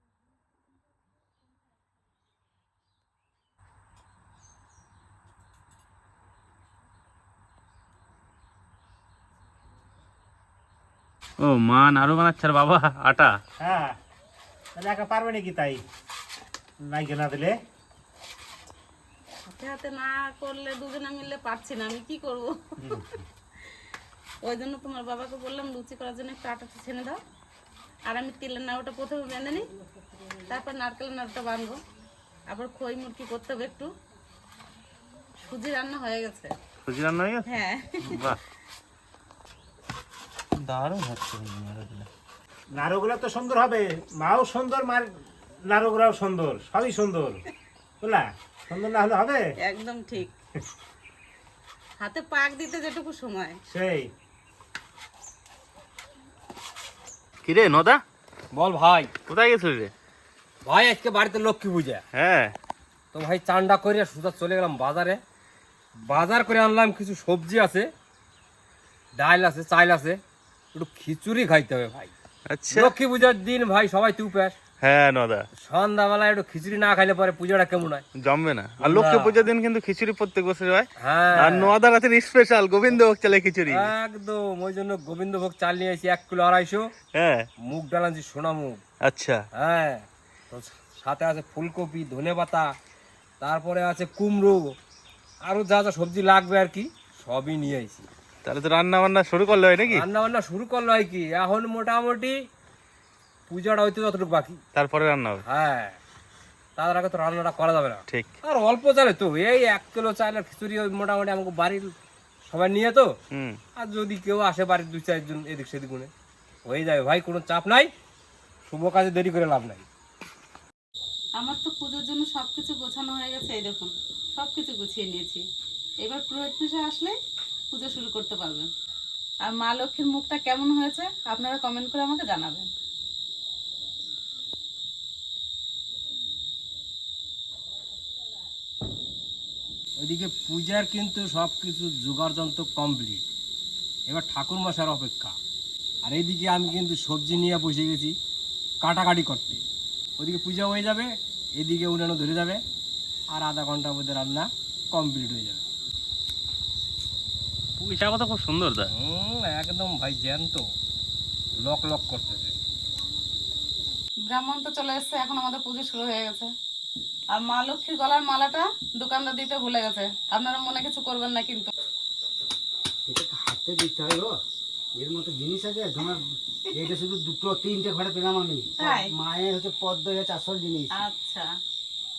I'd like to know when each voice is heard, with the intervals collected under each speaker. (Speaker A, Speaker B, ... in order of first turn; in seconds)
Speaker A: 11.4-13.4, 36.9-37.4, 40.7-42.1, 57.4-58.0, 59.3-59.9, 62.1-62.5, 72.5-72.9, 74.8-75.4, 78.2-83.9, 87.1-87.4, 89.0-89.4, 98.4-100.0, 104.8-105.4, 157.8-158.9
Speaker B: 13.6-13.9, 14.8-15.8, 16.9-17.6, 42.8-45.1, 45.7-47.4, 48.0-49.4, 53.7-54.1
Speaker C: 19.5-23.2, 24.4-27.2, 28.1-29.6, 30.4-31.8, 32.5-33.9, 35.4-36.6, 37.5-38.3, 49.6-50.3, 52.0-53.6, 121.4-125.4, 126.0-127.1, 127.7-128.7, 129.4-132.7, 164.3-166.5, 167.3-171.7, 178.8-179.1, 180.9-181.4
Speaker D: 58.5-59.1, 60.6-62.0, 63.1-65.2, 66.0-67.9, 69.1-70.2, 70.7-72.1, 72.7-74.5, 75.6-78.0, 78.8-79.5, 81.0-81.7, 83.7-86.9, 87.6-88.8, 89.5-92.7, 93.4-94.8, 95.4-98.1, 99.8-102.3, 103.5-104.6, 105.5-106.0, 106.8-113.1, 113.8-116.1, 116.6-117.9, 118.7-119.8, 140.0-143.3, 144.1-145.4, 146.0-148.2, 148.8-149.6, 150.2-152.6, 153.3-155.6, 158.9-160.6, 161.6-162.5
Speaker E: 173.1-174.3, 175.0-180.9